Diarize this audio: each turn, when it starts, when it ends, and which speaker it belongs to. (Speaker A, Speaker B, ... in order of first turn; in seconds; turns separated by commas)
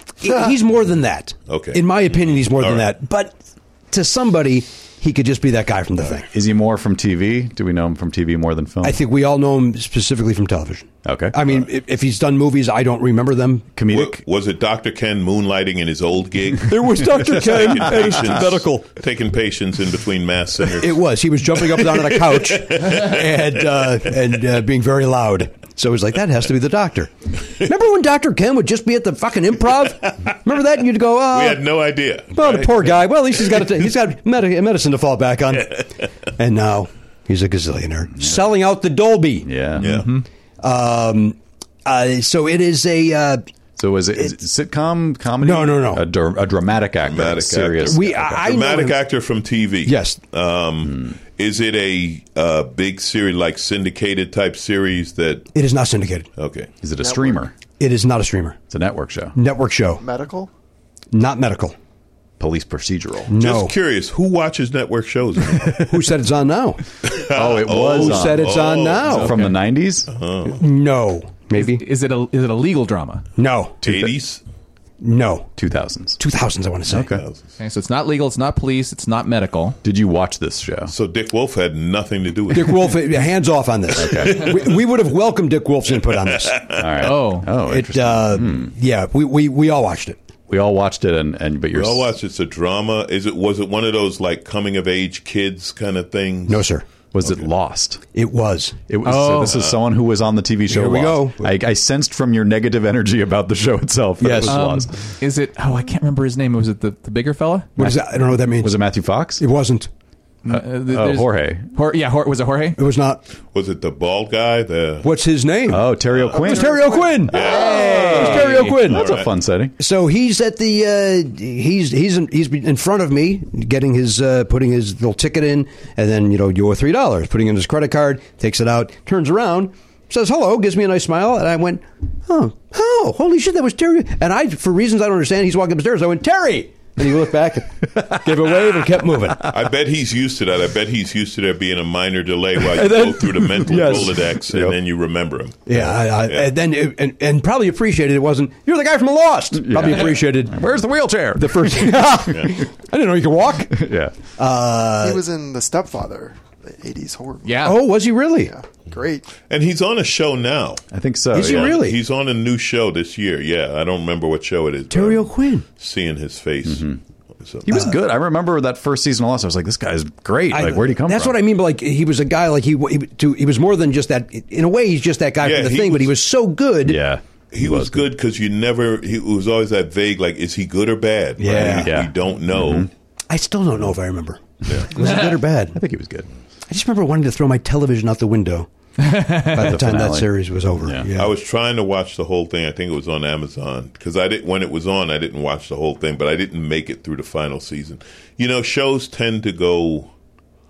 Speaker A: 0.2-3.4, Speaker B: 1.5-1.9, Speaker B: 2.6-2.9, Speaker A: 3.9-6.3, Speaker C: 6.3-9.0, Speaker A: 8.8-13.7, Speaker C: 11.1-11.5, Speaker C: 13.8-14.2, Speaker B: 13.9-21.0, Speaker A: 16.6-18.9, Speaker A: 20.8-31.6, Speaker B: 21.8-23.2, Speaker B: 31.3-33.6, Speaker A: 32.3-39.5, Speaker C: 39.5-39.9, Speaker D: 39.8-40.2, Speaker B: 39.8-40.2, Speaker A: 40.6-43.4, Speaker C: 43.8-48.4, Speaker A: 45.4-46.0, Speaker B: 47.0-55.5, Speaker A: 47.9-49.0, Speaker A: 49.9-50.2, Speaker A: 55.5-56.3, Speaker B: 56.4-56.8, Speaker C: 56.8-57.5, Speaker E: 57.0-57.5, Speaker A: 57.8-58.6, Speaker C: 58.7-59.4, Speaker A: 59.4-60.0, Speaker E: 60.0-60.5, Speaker A: 61.1-61.8, Speaker C: 62.4-63.3, Speaker A: 63.3-63.7, Speaker B: 63.3-66.0, Speaker A: 65.7-66.8, Speaker B: 67.0-69.4, Speaker C: 67.2-68.5, Speaker A: 67.7-69.4, Speaker D: 69.1-69.5, Speaker C: 69.1-70.1, Speaker B: 70.1-70.6, Speaker A: 70.5-71.8, Speaker D: 71.5-73.3, Speaker A: 73.4-73.8, Speaker B: 73.8-74.4, Speaker C: 73.8-74.2, Speaker A: 75.0-75.5, Speaker C: 75.6-76.2, Speaker A: 76.2-77.1, Speaker C: 76.9-77.2, Speaker B: 77.0-77.5, Speaker D: 77.6-79.8, Speaker C: 79.8-80.9, Speaker B: 80.9-83.0, Speaker A: 82.5-86.8, Speaker C: 84.0-84.5, Speaker B: 86.6-86.8, Speaker C: 86.8-88.7, Speaker D: 87.0-87.5, Speaker A: 87.6-90.2, Speaker C: 90.5-92.1, Speaker B: 91.7-96.7, Speaker A: 96.5-96.9, Speaker C: 97.1-98.0, Speaker B: 97.2-97.5, Speaker A: 98.1-98.8, Speaker C: 98.9-105.1, Speaker D: 99.0-99.6, Speaker B: 99.5-99.8, Speaker A: 100.7-101.5, Speaker A: 104.2-104.6, Speaker D: 104.5-107.7, Speaker A: 107.8-108.8, Speaker C: 107.8-109.4, Speaker A: 109.4-109.9, Speaker D: 110.4-112.8, Speaker C: 110.5-111.7, Speaker A: 112.8-113.2, Speaker B: 113.5-115.1, Speaker A: 115.0-119.1, Speaker C: 115.7-116.8, Speaker B: 116.1-116.5, Speaker E: 116.5-116.7, Speaker B: 117.3-119.3, Speaker D: 117.4-118.8, Speaker C: 117.8-119.7, Speaker A: 119.8-139.5, Speaker B: 139.5-146.5, Speaker A: 142.7-144.2, Speaker C: 143.7-144.8, Speaker A: 145.7-150.6, Speaker C: 149.5-152.1, Speaker A: 151.4-153.8, Speaker C: 153.7-154.1, Speaker A: 154.4-155.2, Speaker E: 155.0-157.8, Speaker D: 157.4-157.8, Speaker A: 157.6-158.5, Speaker E: 158.4-159.3, Speaker B: 159.5-160.8, Speaker C: 160.9-161.8, Speaker A: 161.3-162.0, Speaker B: 161.4-167.8, Speaker A: 164.9-165.7, Speaker C: 166.7-167.0, Speaker C: 167.7-171.4, Speaker A: 170.5-177.0, Speaker B: 175.4-176.1, Speaker C: 176.8-178.1, Speaker B: 177.5-182.9, Speaker A: 181.4-181.9, Speaker C: 181.5-182.9, Speaker A: 183.3-185.8, Speaker B: 184.7-184.9, Speaker C: 185.0-186.3, Speaker A: 186.7-191.3, Speaker D: 189.1-189.4, Speaker C: 189.6-190.3, Speaker B: 191.1-200.1